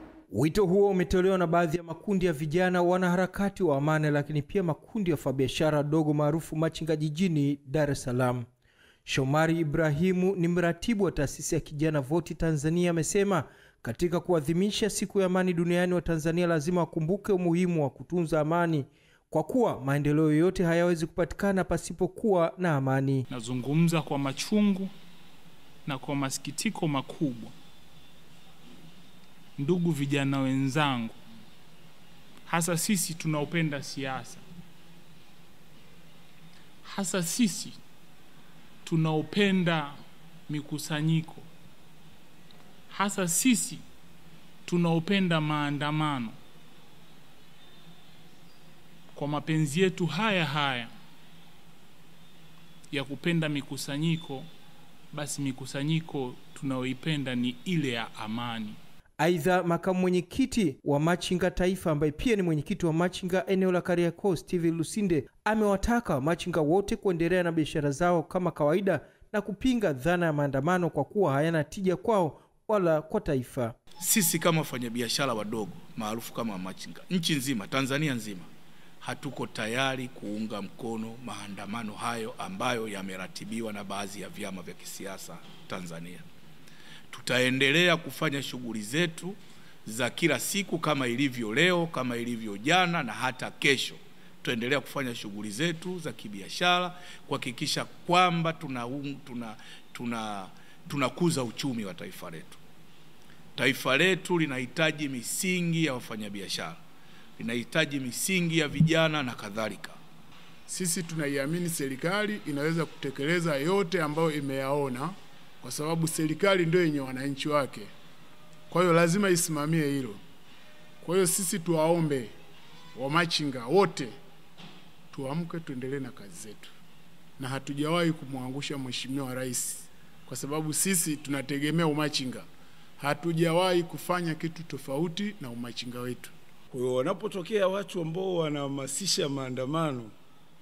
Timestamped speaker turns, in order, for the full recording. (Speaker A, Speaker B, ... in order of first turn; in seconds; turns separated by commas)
Speaker A: 0.3-8.5, Speaker A: 9.1-23.2, Speaker B: 23.3-24.9, Speaker B: 25.9-27.5, Speaker B: 29.6-31.1, Speaker B: 32.5-34.4, Speaker B: 36.8-37.8, Speaker B: 38.8-40.0, Speaker B: 40.5-41.5, Speaker B: 42.9-43.8, Speaker B: 44.7-46.4, Speaker B: 49.1-50.9, Speaker B: 52.9-54.5, Speaker B: 55.1-58.8, Speaker A: 59.2-73.8, Speaker C: 74.0-78.5, Speaker C: 79.0-86.2, Speaker C: 87.1-102.6, Speaker C: 103.6-106.8, Speaker C: 107.4-110.0, Speaker D: 110.7-117.9, Speaker D: 118.7-120.2, Speaker D: 121.0-122.3, Speaker D: 122.9-124.1, Speaker D: 125.1-126.7, Speaker D: 127.4-132.4, Speaker D: 133.0-136.3, Speaker E: 136.7-140.1